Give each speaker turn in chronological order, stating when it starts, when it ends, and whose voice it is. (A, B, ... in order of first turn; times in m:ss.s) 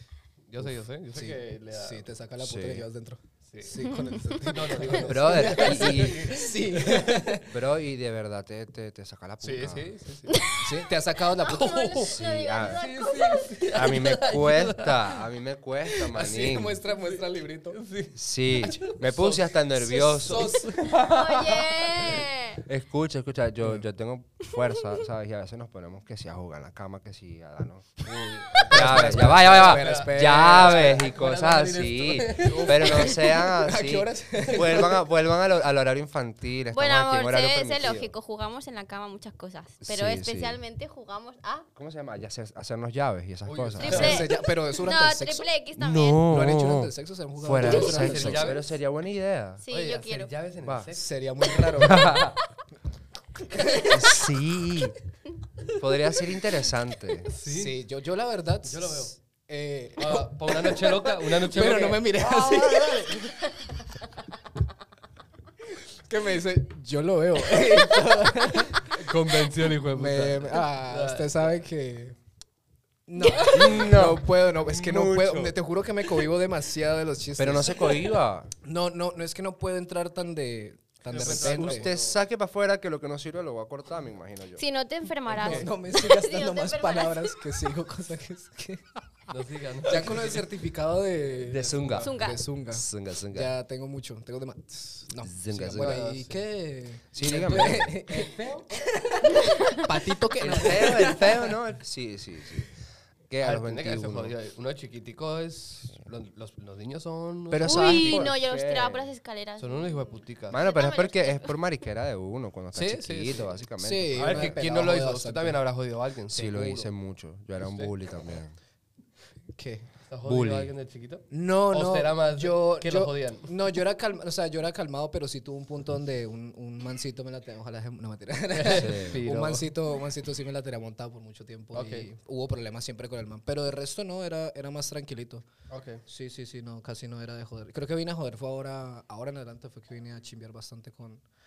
0:00.5-0:02.1 A
0:01.1-0:07.5 B
0:02.4-0:02.9 C
0:03.5-0:03.8 A
0:03.8-0:04.2 D
0:04.3-0:07.3 A
0:05.0-0:06.5 C
0:07.4-0:09.9 C
0:09.4-0:10.6 A
0:10.3-0:10.5 D
0:10.6-0:11.8 B
0:11.3-0:13.6 D
0:11.4-0:15.2 A
0:12.0-0:12.9 C
0:13.7-0:16.8 C
0:15.9-0:22.3 A
0:16.2-0:17.8 B
0:18.1-0:20.6 C
0:20.2-0:20.8 B
0:20.9-0:22.6 D
0:22.6-0:27.9 C
0:28.0-0:33.2 A
0:28.5-0:31.0 B
0:28.7-0:38.1 C
0:32.4-0:35.0 B
0:34.5-0:34.8 A
0:36.7-0:41.7 D
0:39.8-0:40.6 C
0:41.7-0:44.3 C
0:43.4-0:44.3 A
0:43.8-0:46.2 D
0:43.8-0:45.5 B
0:45.8-0:49.6 C
0:46.3-0:48.5 B
0:47.6-0:48.8 A
0:47.6-0:48.2 D
0:49.6-0:50.3 D
0:49.7-0:51.1 A
0:50.6-0:50.9 C
0:50.9-0:52.2 B
0:51.6-0:52.0 A
0:51.8-0:52.4 C
0:53.6-0:53.9 D
0:53.8-0:55.0 C
0:55.8-0:57.3 C
0:57.3-0:57.8 A
0:57.4-1:03.3 B
0:58.6-0:59.1 A
1:00.0-1:03.4 A
1:06.1-1:09.0 B
1:08.8-1:11.5 A
1:09.9-1:12.2 B
1:13.1-1:18.0 B
1:13.5-1:15.6 C
1:17.4-1:18.5 C
1:18.6-1:21.9 B
1:21.1-1:22.2 A
1:21.2-1:24.6 C
1:24.6-1:27.4 D
1:25.3-1:29.3 B
1:29.3-1:30.4 A
1:29.8-1:41.3 B
1:31.5-1:33.5 C
1:31.5-1:32.1 A
1:32.0-1:32.4 D
1:35.2-1:36.0 C
1:35.7-1:36.4 A
1:37.1-1:38.0 C
1:38.1-1:38.6 A
1:39.4-1:39.7 D
1:40.4-1:44.3 C
1:40.6-1:41.3 A
1:43.4-1:48.3 A
1:47.5-1:49.1 C
1:47.6-1:51.6 D
1:49.6-1:50.6 A
1:50.5-1:54.6 C
1:52.7-1:53.6 A
1:53.8-1:55.6 B
1:54.1-1:56.9 A
1:56.3-1:58.6 C
1:57.6-1:57.9 A
1:59.6-1:59.9 B
2:00.1-2:03.5 A
2:00.2-2:00.7 C
2:01.3-2:15.4 B
2:08.5-2:09.7 A
2:08.7-2:09.2 C
2:11.7-2:12.1 A
2:15.7-2:16.0 A
2:16.0-2:21.2 B